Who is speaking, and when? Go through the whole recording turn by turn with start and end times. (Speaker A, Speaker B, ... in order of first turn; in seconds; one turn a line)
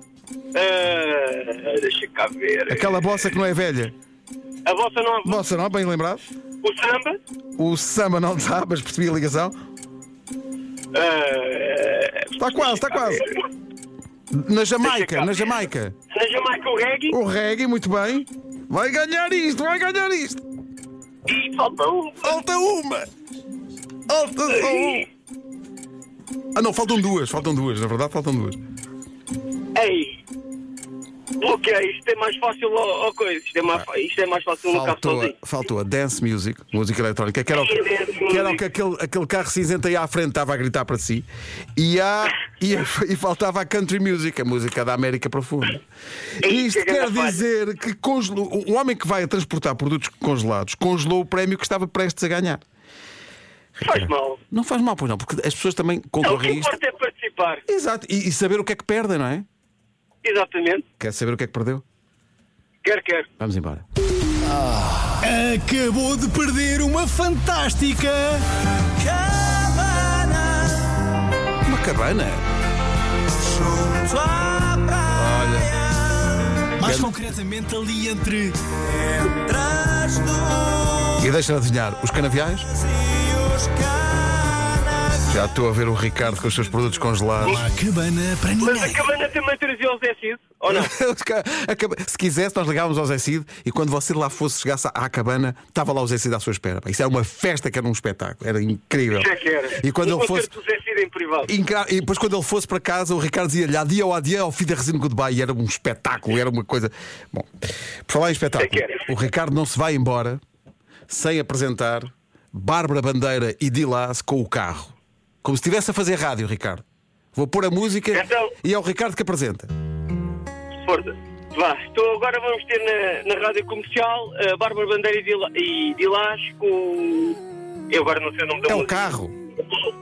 Speaker A: 0.5-3.3
Speaker B: 2.7-3.9
Speaker A: 4.6-5.4
Speaker B: 5.2-6.2
Speaker A: 6.6-7.2
Speaker B: 7.6-9.5
Speaker A: 10.9-13.4
Speaker B: 12.4-13.2
Speaker B: 14.3-15.9
Speaker A: 14.8-15.5
Speaker A: 16.1-17.1
Speaker B: 17.1-20.4
Speaker A: 21.3-22.4
Speaker B: 22.2-23.1
Speaker B: 24.1-25.1
Speaker A: 24.5-25.0
Speaker B: 26.5-28.6
Speaker A: 29.7-30.2
Speaker A: 31.4-35.3
Speaker B: 34.7-45.8
Speaker A: 37.5-38.6
Speaker A: 46.4-47.4
Speaker B: 46.4-52.6
Speaker A: 53.8-54.4
Speaker B: 53.8-56.8
Speaker A: 56.2-57.6
Speaker B: 57.7-59.5
Speaker A: 60.2-60.8
Speaker B: 61.0-61.8
Speaker A: 62.8-63.3
Speaker B: 63.4-63.8
Speaker C: 65.1-70.9
Speaker B: 71.6-72.4
Speaker C: 73.4-75.3
Speaker B: 75.1-75.8
Speaker C: 76.6-80.9
Speaker B: 76.8-77.1
Speaker B: 81.1-82.7
Speaker C: 83.3-85.0
Speaker B: 85.2-87.6
Speaker C: 87.4-89.0
Speaker A: 88.6-90.9
Speaker B: 90.7-100.5
Speaker A: 99.2-101.5
Speaker B: 101.5-107.5
Speaker B: 108.1-110.4
Speaker A: 108.6-109.0
Speaker B: 111.1-116.8
Speaker B: 117.3-119.7
Speaker A: 118.1-118.5
Speaker A: 120.8-127.4
Speaker A: 127.9-129.1
Speaker B: 128.7-129.3